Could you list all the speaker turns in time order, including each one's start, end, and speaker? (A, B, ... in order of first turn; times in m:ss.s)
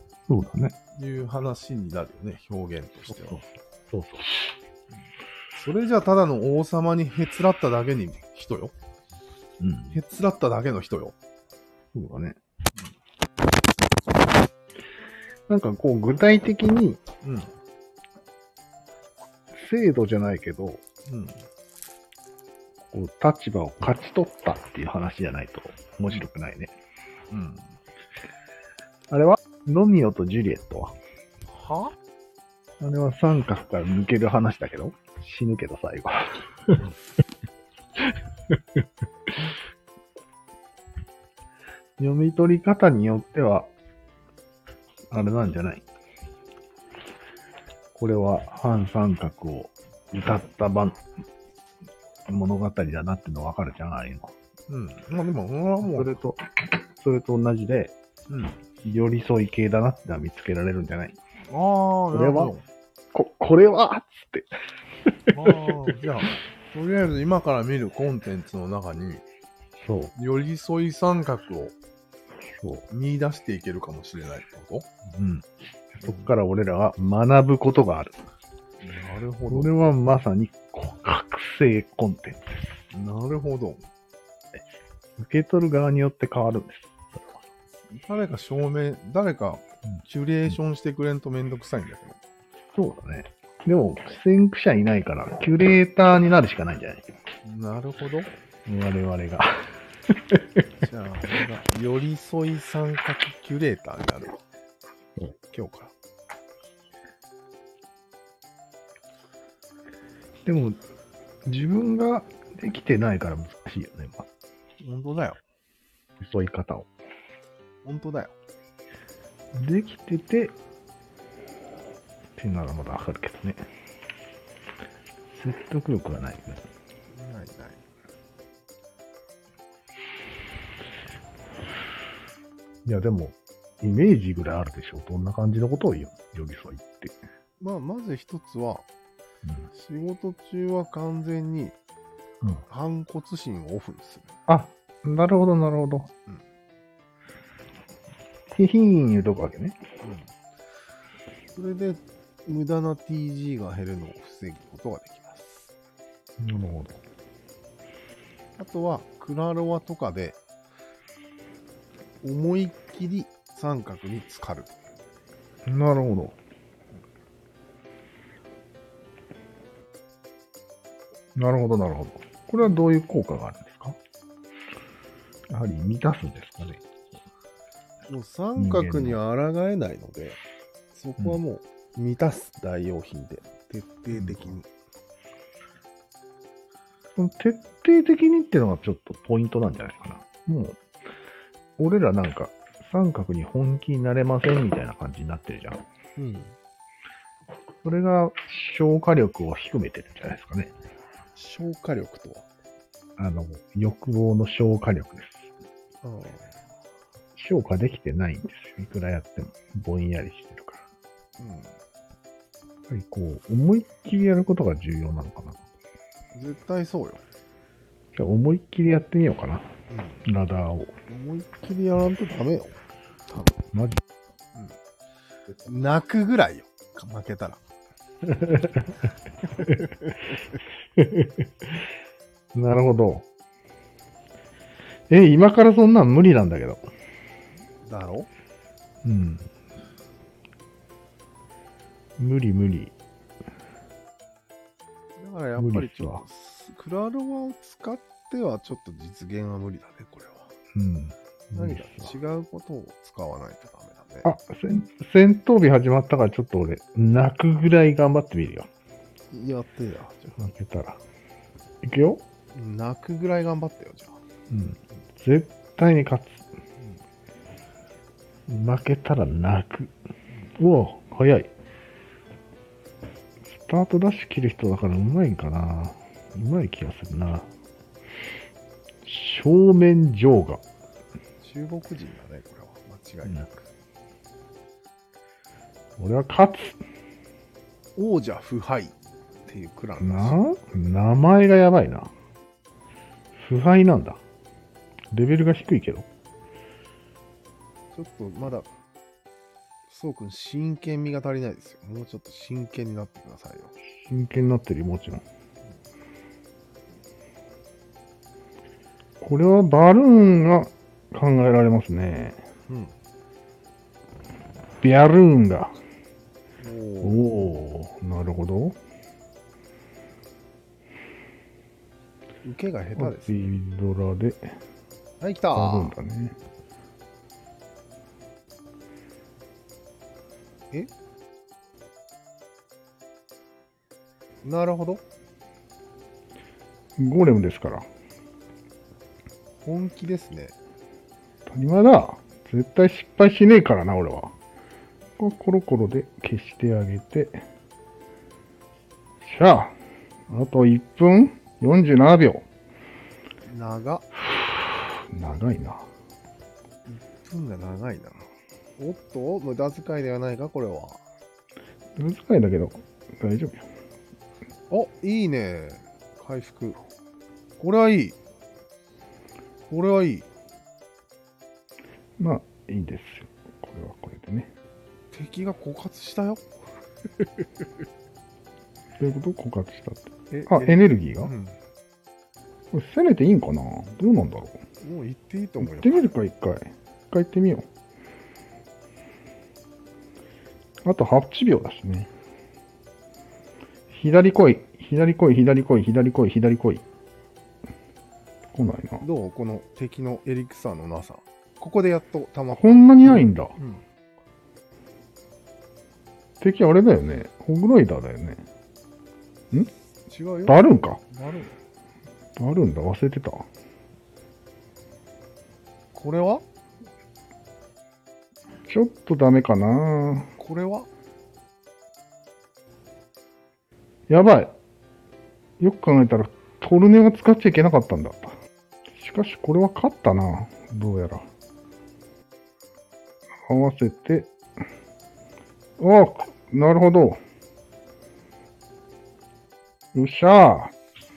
0:00.3-0:00.8 A
0:01.0-0:03.4 B
0:03.1-0:04.4 A
0:05.5-0:08.7 B
0:09.6-0:10.0 A
0:09.9-0:11.2 B
0:11.9-0:12.4 A
0:15.5-0:17.0 A
0:17.2-0:17.5 B
0:19.5-0:20.8 A
0:21.1-0:21.4 B
0:22.9-0:26.7 A
0:27.3-0:27.8 B
0:29.1-0:31.0 A
0:31.5-0:31.9 B
0:32.8-0:36.8 A
0:42.0-0:43.7 A
0:45.1-0:45.8 A
0:48.0-0:51.0 A
0:52.3-0:54.3 A
0:54.7-0:56.1 B
0:55.8-0:58.0 A
0:58.3-0:58.6 B
0:58.8-1:01.2 A
1:01.5-1:02.6 B
1:02.1-1:02.5 A
1:03.1-1:04.5 A
1:05.3-1:05.7 A
1:05.3-1:09.2 B
1:09.8-1:10.1 A
1:10.2-1:11.7 B
1:12.5-1:12.9 A
1:12.9-1:14.9 B
1:15.1-1:18.2 A
1:16.0-1:16.3 B
1:18.8-1:19.7 B
1:19.5-1:22.7 A
1:22.9-1:23.9 B
1:25.2-1:27.4 A
1:27.9-1:32.2 B
1:32.7-1:37.1 A
1:37.4-1:38.3 B
1:38.7-1:40.4 A
1:40.8-1:44.4 B
1:45.5-1:45.9 B
1:50.4-1:50.8 A
1:51.4-1:54.3 A
1:54.8-1:55.4 B
1:56.2-1:56.9 A
1:57.8-1:58.3 B
1:59.6-2:00.6 A
2:02.4-2:03.6 A
2:05.3-2:06.6 A
2:07.1-2:07.8 B
2:12.9-2:17.2 A
2:17.6-2:18.9 B
2:19.7-2:21.8 B
2:22.7-2:24.4 B
2:24.5-2:26.1 A
2:28.5-2:29.8 A
2:30.0-2:30.3 B
2:31.6-2:35.7 B
2:36.4-2:37.0 A
2:38.6-2:40.4 B
2:42.2-2:44.8 B
2:45.7-2:46.4 A
2:51.4-2:54.0 A
2:55.5-2:56.8 A
2:58.1-3:00.4 B
2:58.6-2:59.2 A
3:00.9-3:04.7 B
3:04.1-3:04.6 A
3:07.2-3:10.8 A
3:11.8-3:15.8 A
3:16.2-3:16.6 B
3:17.8-3:20.7 A
3:21.4-3:22.5 B
3:23.2-3:25.5 A
3:26.0-3:26.6 B
3:27.4-3:30.8 A
3:31.4-3:31.8 B
3:32.9-3:35.6 A
3:36.3-3:37.2 B
3:38.1-3:39.7 A
3:39.9-3:40.2 B
3:40.2-3:40.9 A
3:41.1-3:42.8 B
3:43.3-3:43.6 B
3:43.7-3:44.0 A
3:45.7-3:47.6 B
3:48.2-3:49.0 A
3:51.0-3:51.4 A
3:52.5-3:53.2 A
3:55.1-3:56.9 A
3:57.8-3:58.3 B
3:59.0-3:59.5 A
4:02.2-4:02.9 A
4:05.2-4:10.5 B
4:05.6-4:06.2 A
4:10.7-4:12.1 A
4:11.5-4:14.3 B
4:14.2-4:18.7 A
4:19.3-4:20.4 B
4:20.4-4:21.0 A
4:21.8-4:22.2 A
4:22.5-4:24.2 B
4:24.5-4:26.5 A
4:28.5-4:29.9 A
4:30.6-4:31.5 A
4:33.4-4:37.5 A
4:39.0-4:40.6 A
4:41.4-4:43.7 B
4:46.0-4:46.8 A
4:48.0-4:48.9 B
4:49.5-4:50.4 B
4:50.0-4:52.1 A
4:53.4-4:54.2 A
4:55.1-4:56.1 A
4:57.9-4:58.7 B
4:59.9-5:03.7 B
5:04.0-5:05.2 A
5:09.2-5:12.4 A
5:12.7-5:13.0 B
5:14.8-5:15.8 A
5:16.6-5:17.2 B
5:17.0-5:18.8 A
5:22.4-5:23.4 B
5:23.0-5:24.6 A
5:25.2-5:26.0 B
5:25.5-5:26.4 A
5:34.4-5:35.0 B
5:37.0-5:37.9 A
5:39.6-5:40.6 B
5:41.5-5:44.3 A
5:45.2-5:47.4 A
5:49.2-5:49.8 A
5:50.3-5:52.5 A
5:53.4-5:54.1 B
5:54.4-5:55.9 A
5:56.9-6:01.0 B
6:02.0-6:03.7 A
6:04.7-6:06.8 B
6:07.6-6:08.2 B
6:09.7-6:10.3 B
6:12.2-6:14.5 A
6:15.1-6:16.4 B
6:19.0-6:21.3 A
6:20.3-6:21.6 B
6:22.7-6:24.6 A
6:24.8-6:26.1 B
6:25.6-6:27.7 A
6:30.8-6:32.1 A
6:33.9-6:36.8 A
6:38.5-6:39.0 A
6:39.0-6:43.8 B
6:42.5-6:43.6 A
6:46.4-6:48.4 A
6:50.1-6:51.6 B
6:50.5-6:51.0 A
6:52.4-6:53.5 A
6:55.9-6:56.4 B
6:58.7-7:00.3 A
7:00.4-7:00.9 B
7:04.1-7:04.6 A
7:05.6-7:08.4 A
7:08.9-7:11.3 A
7:13.5-7:14.3 A
7:15.8-7:17.2 A
7:19.9-7:20.7 A